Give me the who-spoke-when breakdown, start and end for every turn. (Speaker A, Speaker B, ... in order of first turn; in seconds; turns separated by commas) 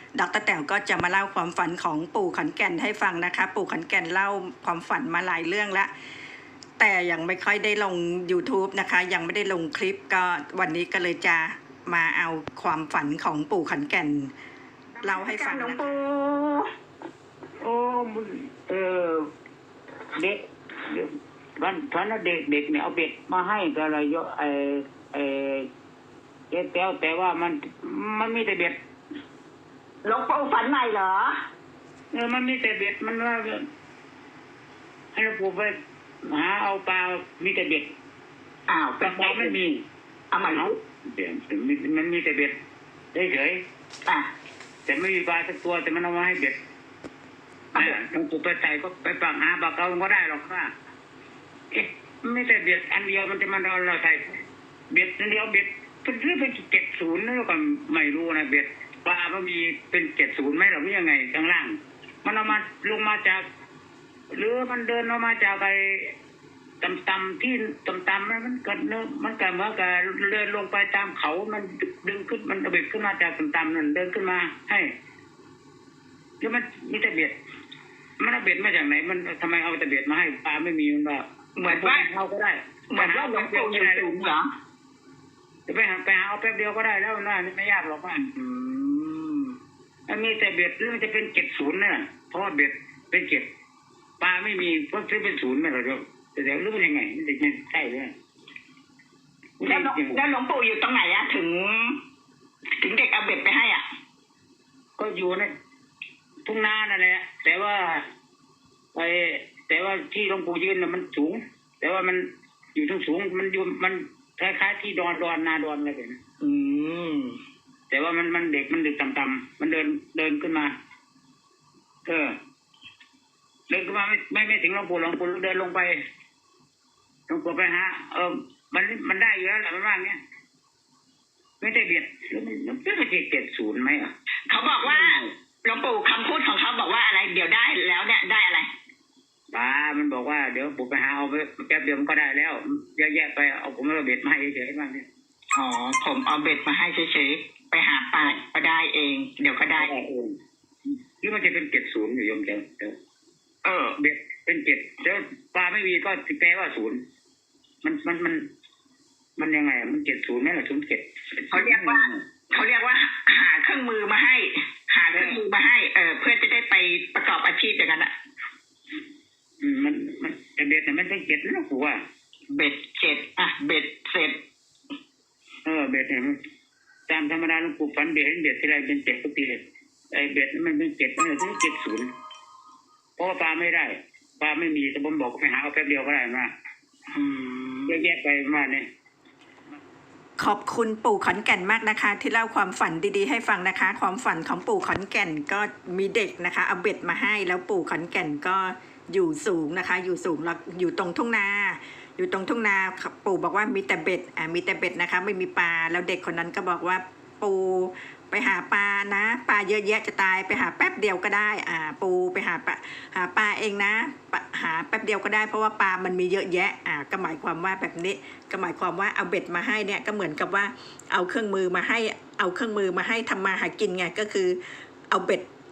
Speaker A: 0.2-5.9, Speaker A: 6.8-14.3, Speaker B: 15.0-16.7, Speaker A: 15.0-15.9, Speaker C: 17.6-19.3, Speaker C: 20.1-25.7, Speaker C: 26.5-28.8, Speaker B: 30.0-31.4, Speaker C: 32.1-33.7, Speaker C: 35.1-37.9, Speaker B: 38.7-39.6, Speaker C: 39.0-39.8, Speaker B: 40.3-40.8, Speaker C: 40.5-42.6, Speaker C: 43.1-43.6, Speaker B: 44.1-44.3, Speaker C: 44.9-46.6, Speaker C: 47.7-50.7, Speaker C: 51.7-63.4, Speaker C: 64.3-66.2, Speaker C: 66.8-74.9, Speaker C: 76.4-77.3, Speaker C: 78.2-84.3, Speaker B: 81.6-82.1, Speaker B: 82.9-84.5, Speaker C: 85.7-88.3, Speaker B: 88.4-89.6, Speaker C: 90.1-93.5, Speaker C: 94.2-98.1, Speaker C: 99.6-100.2, Speaker B: 99.6-102.0, Speaker B: 102.8-103.9, Speaker C: 105.0-105.5, Speaker C: 106.5-108.1, Speaker C: 108.9-116.2, Speaker B: 116.4-117.4, Speaker C: 117.9-120.8, Speaker C: 122.0-122.3, Speaker C: 123.7-126.0, Speaker C: 127.3-130.2, Speaker C: 131.6-134.1, Speaker B: 134.5-138.7, Speaker C: 134.8-135.3, Speaker C: 139.5-145.1, Speaker B: 145.5-149.9, Speaker C: 148.2-148.4, Speaker C: 149.7-150.4, Speaker C: 151.2-153.0, Speaker B: 153.6-154.0, Speaker C: 154.0-157.0, Speaker C: 157.8-158.4, Speaker C: 159.4-162.2, Speaker B: 161.5-168.1, Speaker C: 165.1-165.4, Speaker C: 169.6-172.0, Speaker B: 172.5-174.4, Speaker C: 175.7-176.4, Speaker C: 177.1-182.1, Speaker C: 183.2-186.5, Speaker B: 187.1-188.0, Speaker C: 187.9-188.9, Speaker A: 190.4-225.5